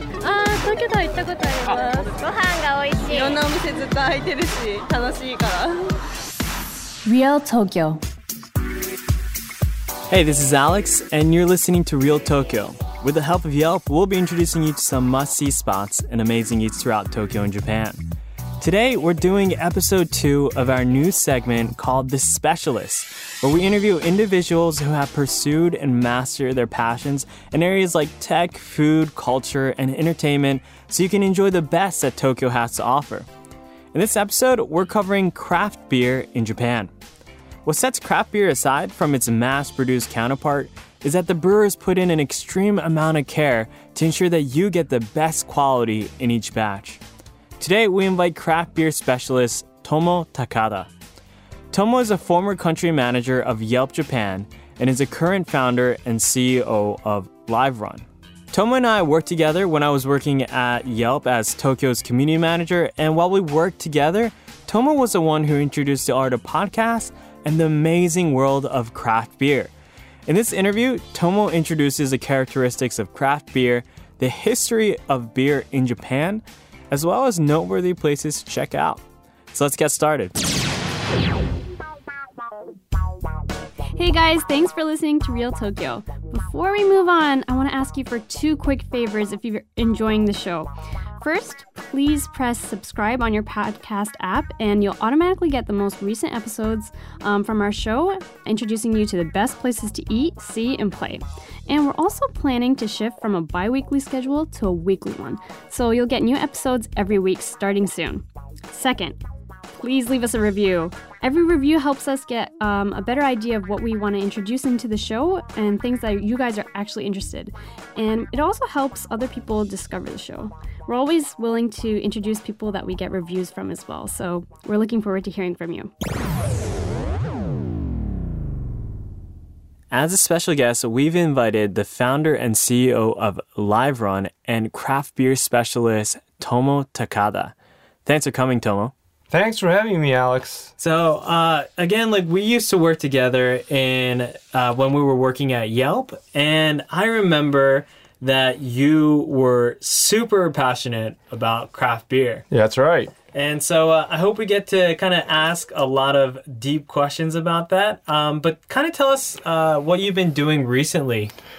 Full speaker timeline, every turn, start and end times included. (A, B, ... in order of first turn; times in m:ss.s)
0:00.2-0:03.4 A
0:01.6-0:02.1 B
0:03.0-0:05.9 B
0:07.0-0:08.0 C
0:10.1-0:18.0 D
0:18.6-0:33.3 D
0:33.9-0:36.9 D
0:37.6-0:47.0 D
0:47.6-0:50.9 D
0:51.7-1:09.7 D
1:10.3-1:20.4 D
1:24.0-1:30.7 C
1:31.2-1:49.2 C
1:49.7-2:05.9 C
2:09.9-2:18.9 D
2:19.3-2:20.7 E
2:20.8-2:32.4 D
2:32.5-2:33.1 E
2:33.3-2:41.3 D